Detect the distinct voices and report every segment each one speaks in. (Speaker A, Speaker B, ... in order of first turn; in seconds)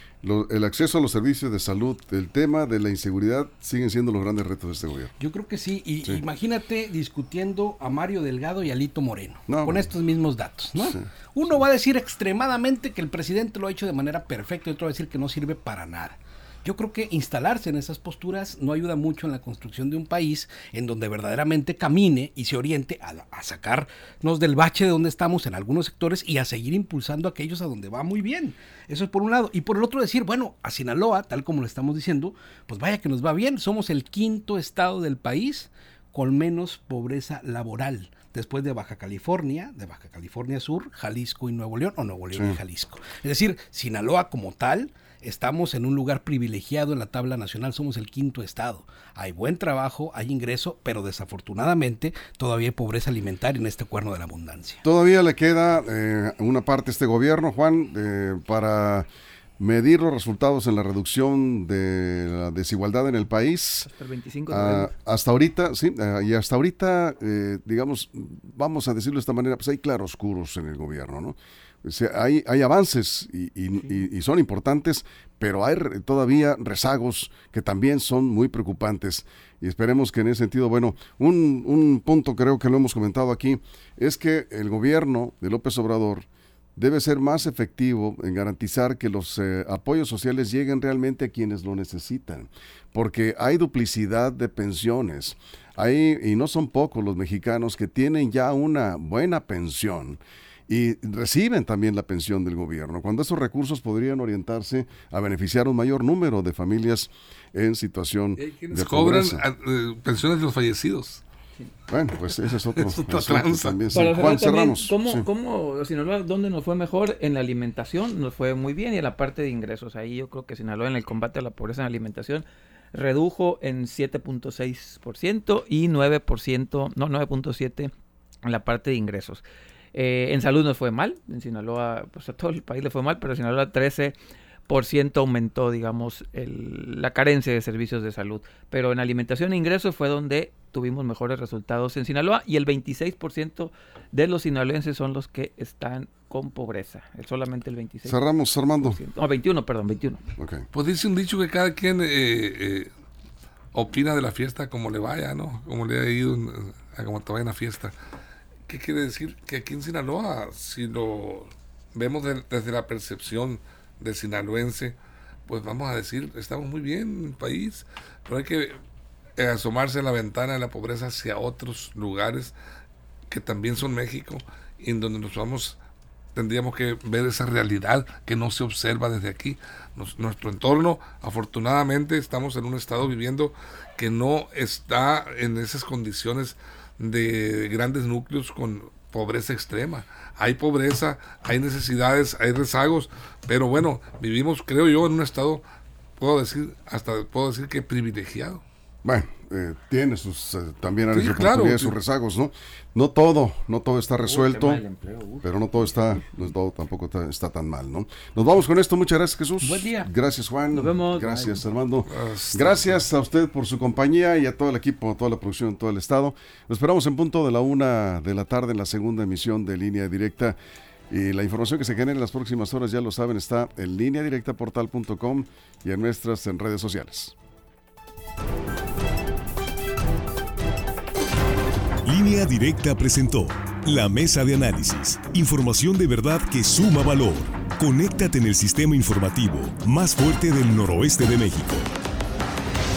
Speaker A: 0.2-5.1, 9.5-9.9, 10.8-11.1, 42.3-42.6, 54.8-59.0, 59.6-63.9, 64.5-109.4, 111.9-115.3, 148.1-149.0, 150.4-150.7, 199.0-204.8, 205.4-220.6, 221.1-227.3
Speaker B: 5.2-54.8, 209.6-210.1
Speaker C: 63.8-64.9, 113.9-127.9, 128.4-129.4, 129.9-134.1, 134.7-148.2, 148.8-150.2, 204.2-206.2, 210.7-211.6
Speaker D: 108.4-111.2, 112.7-113.8, 150.7-152.9, 153.7-157.9, 158.7-168.8, 169.4-172.5, 173.3-175.8, 176.3-195.6, 196.2-198.6, 201.1-201.9, 212.1-213.0
Speaker E: 232.1-241.9